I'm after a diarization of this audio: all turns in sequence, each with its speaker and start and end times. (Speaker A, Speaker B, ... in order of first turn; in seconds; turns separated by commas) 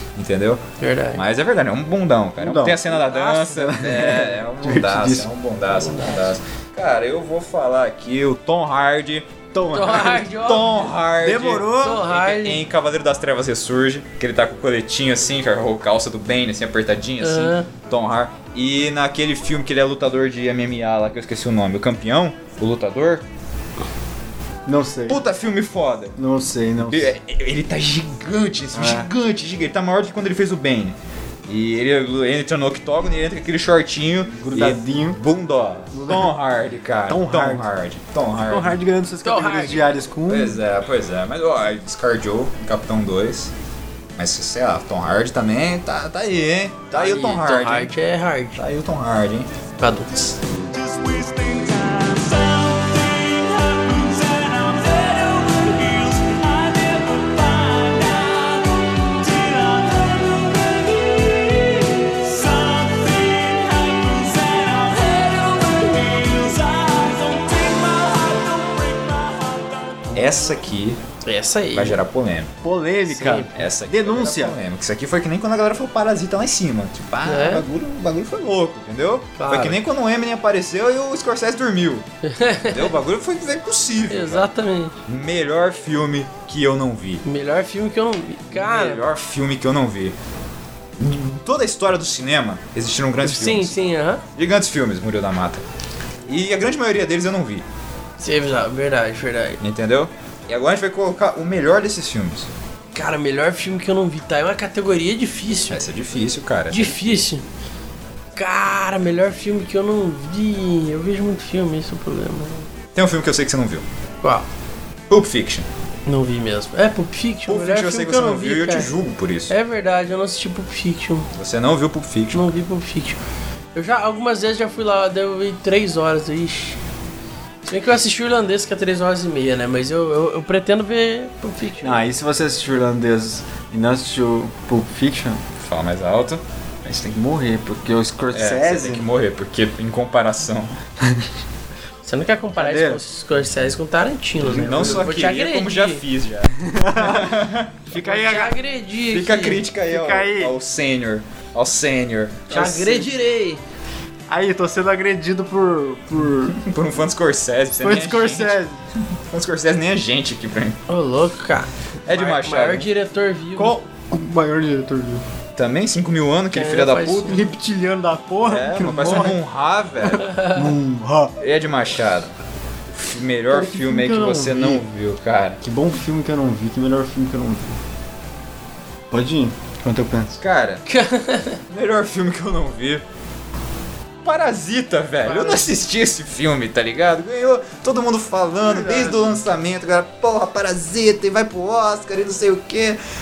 Speaker A: 0.2-0.6, Speaker B: 0.8-1.2, Speaker A: 1.1-23.2, Speaker C: 2.4-2.9, Speaker B: 2.9-3.5, Speaker C: 3.4-5.3, Speaker B: 5.7-6.4, Speaker C: 9.6-9.9, Speaker B: 9.7-10.8, Speaker C: 11.2-12.1, Speaker B: 11.8-12.6, Speaker B: 17.2-17.7, Speaker C: 24.7-25.2, Speaker A: 25.1-26.1, Speaker C: 26.2-27.1, Speaker A: 26.8-31.0, Speaker C: 28.7-29.1, Speaker A: 31.5-38.8, Speaker C: 34.4-35.2, Speaker C: 35.9-36.3, Speaker C: 37.1-37.7, Speaker C: 38.4-40.6, Speaker B: 39.2-39.9, Speaker A: 40.3-43.5, Speaker A: 44.2-47.9, Speaker B: 46.9-48.6, Speaker A: 48.6-49.5, Speaker B: 49.8-50.4, Speaker D: 50.8-70.1, Speaker A: 70.1-71.0, Speaker B: 71.2-72.0, Speaker A: 71.7-72.5, Speaker C: 72.6-74.6, Speaker B: 73.1-73.5, Speaker A: 73.3-82.1, Speaker B: 77.2-77.7, Speaker B: 79.3-79.8, Speaker B: 82.2-83.0, Speaker A: 82.6-84.5, Speaker B: 84.1-85.0, Speaker A: 85.1-87.2, Speaker B: 87.2-89.0, Speaker A: 88.5-90.2, Speaker A: 91.0-93.8, Speaker B: 93.2-94.2, Speaker A: 94.4-95.6, Speaker A: 96.3-97.7, Speaker B: 98.2-99.6, Speaker A: 99.6-102.5, Speaker B: 102.9-105.8, Speaker A: 105.7-107.2, Speaker B: 106.7-107.4, Speaker B: 108.4-112.7, Speaker A: 113.0-113.8, Speaker A: 115.1-115.7, Speaker B: 116.1-118.9, Speaker A: 117.5-119.5, Speaker B: 119.5-121.3, Speaker A: 121.3-122.5, Speaker B: 122.3-123.2, Speaker B: 123.8-126.8, Speaker B: 127.6-132.0, Speaker C: 131.8-135.4, Speaker A: 135.6-136.4, Speaker C: 136.8-139.1, Speaker A: 138.3-140.8, Speaker B: 142.1-146.0, Speaker C: 142.6-143.0, Speaker A: 144.5-147.8, Speaker C: 144.5-145.0, Speaker C: 146.6-148.5, Speaker B: 147.9-149.6, Speaker A: 149.1-153.0, Speaker C: 149.9-150.6, Speaker B: 152.5-153.6, Speaker C: 152.5-153.1, Speaker C: 154.3-156.6, Speaker A: 156.5-158.6, Speaker C: 157.8-158.8, Speaker A: 159.2-160.8, Speaker B: 160.9-163.8, Speaker A: 162.1-162.9, Speaker C: 163.6-165.2, Speaker A: 165.6-167.4, Speaker B: 166.5-167.5, Speaker C: 167.3-169.4, Speaker A: 168.4-170.4, Speaker C: 170.1-171.3, Speaker B: 170.2-170.6, Speaker A: 171.4-172.3, Speaker A: 172.9-175.6, Speaker C: 173.5-174.9, Speaker C: 175.6-177.8, Speaker C: 179.1-180.4, Speaker A: 180.4-180.8, Speaker B: 180.9-181.6, Speaker A: 181.7-183.0, Speaker A: 184.2-193.0, Speaker B: 185.3-185.7, Speaker C: 188.6-189.3